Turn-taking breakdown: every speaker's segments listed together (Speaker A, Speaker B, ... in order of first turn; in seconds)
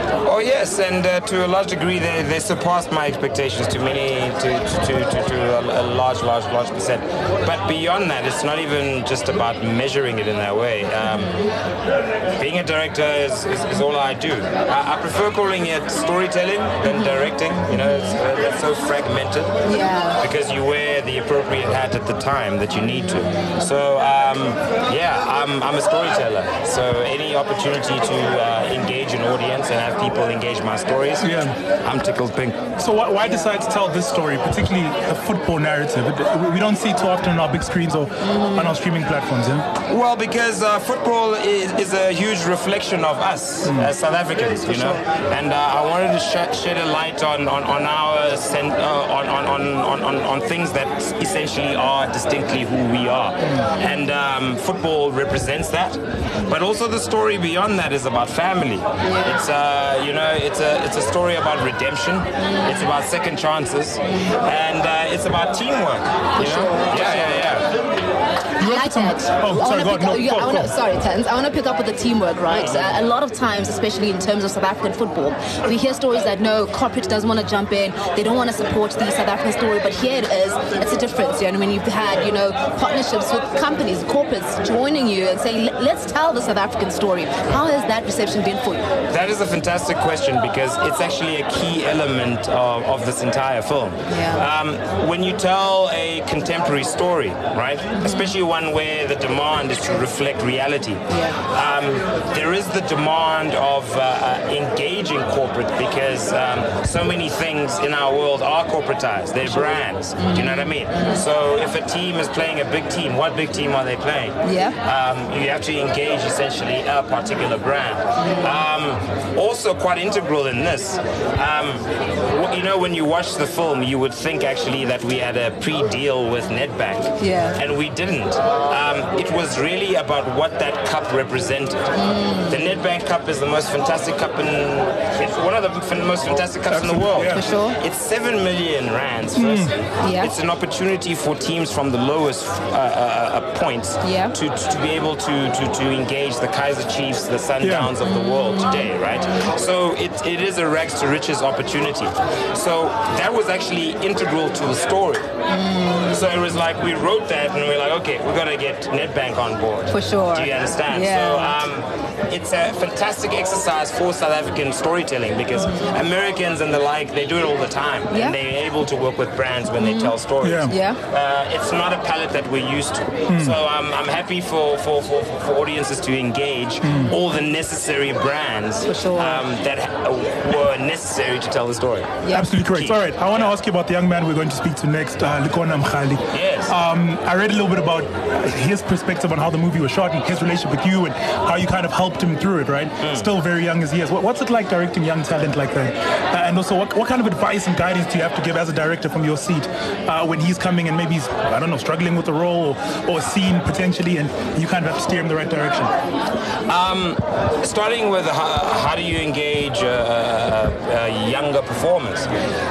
Speaker A: 0.2-11.3, 12.3-19.6, 20.2-32.6, 39.9-67.7, 89.1-155.3, 156.1-183.6, 186.3-186.8, 193.0-193.3, 206.7-212.3
Speaker B: 11.0-11.5, 16.8-18.2, 19.6-20.2, 38.2-38.8, 44.7-45.0, 59.0-59.4, 62.4-62.9, 66.4-67.5, 68.6-88.9, 94.1-94.5, 98.0-98.3, 101.1-101.4, 110.2-111.2, 114.4-114.8, 118.2-118.6, 127.2-127.6, 131.9-132.7, 137.2-137.8, 140.0-140.3, 144.0-144.4, 148.0-148.9, 155.5-156.3, 159.9-161.6, 168.1-168.4, 169.8-170.1, 170.7-171.0, 178.9-179.4, 182.2-182.5
Speaker C: 31.2-31.6, 32.8-39.7, 43.6-43.9, 68.6-70.7, 136.7-137.4, 139.4-139.7, 147.6-147.9, 170.4-170.7, 173.3-173.6, 176.8-177.1, 182.3-205.9